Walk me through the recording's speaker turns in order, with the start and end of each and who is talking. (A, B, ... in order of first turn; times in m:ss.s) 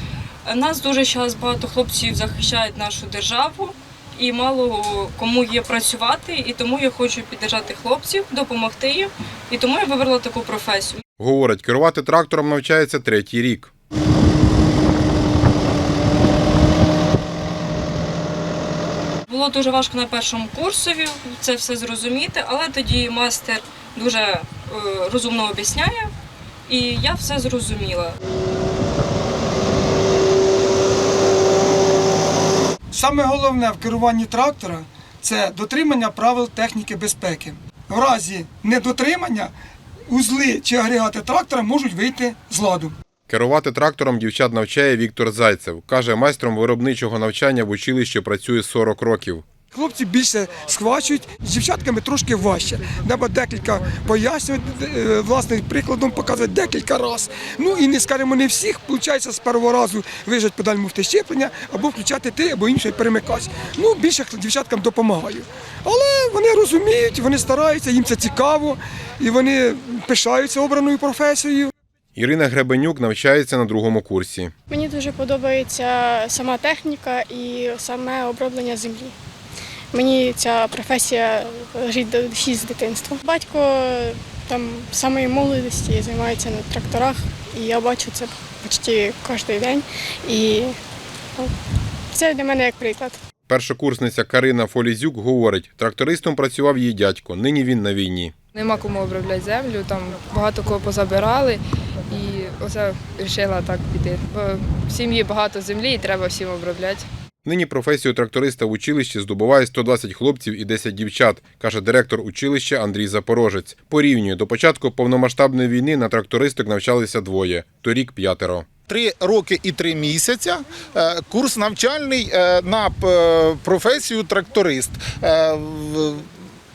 0:00.4-0:11.0 A
0:11.2-0:13.7 B
0:19.3-0:26.1 A
0:26.7-0:28.2 A
0:32.9-0:39.5 C
0:40.1-0:43.0 C
0:43.3-0:49.4 B
0:49.7-1:11.7 C
1:12.2-1:14.5 B
1:14.7-1:19.2 D
1:19.9-1:30.7 D
1:32.1-1:33.2 D
1:33.5-1:38.4 B
1:38.6-1:47.1 E
1:47.4-1:58.7 B
1:58.9-2:06.3 F